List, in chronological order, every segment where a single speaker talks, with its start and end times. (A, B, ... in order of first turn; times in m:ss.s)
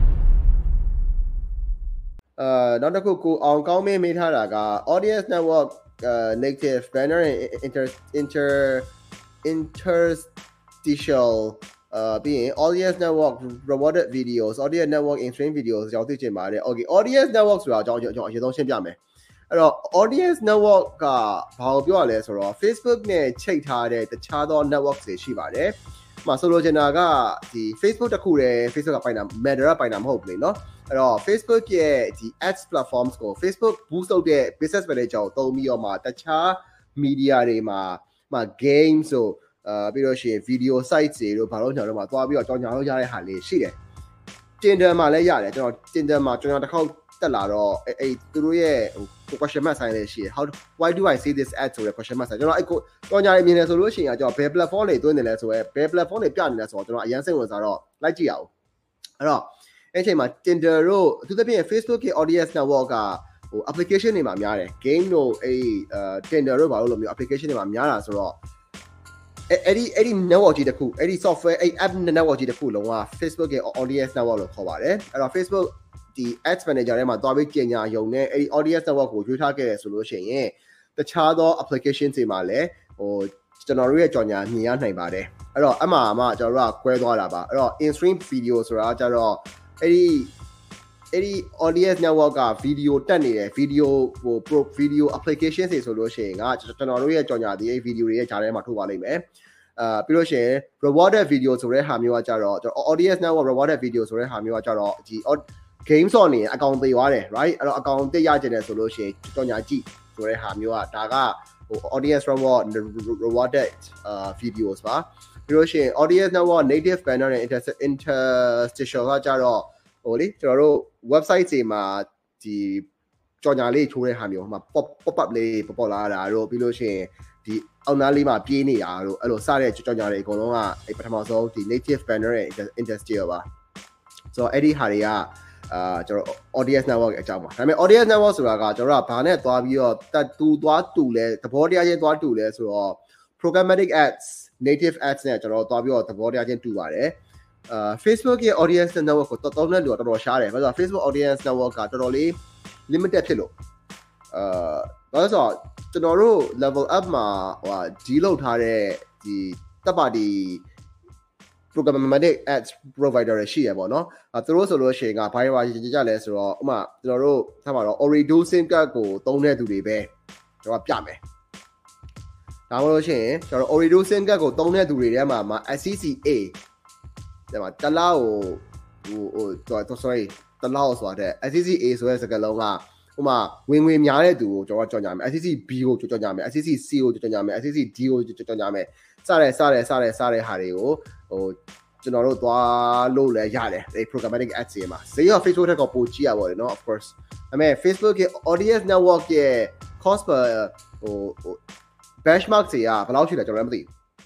0:02.4-0:08.9 A
0:09.4-0:10.3 A
0:10.8-0:19.0 A
0:19.5-0:43.8 A
0:44.6-0:58.5 A
0:59.2-1:08.4 A
1:09.5-1:30.3 A
1:31.1-1:39.2 A
1:39.8-2:02.9 A
2:03.4-2:13.4 A
2:14.3-2:27.2 A
2:27.7-2:33.5 A
2:34.3-2:40.6 A
2:41.7-2:50.1 A
2:50.6-2:51.2 A
2:52.7-2:56.6 A
2:57.5-3:21.6 A
3:22.2-3:23.9 A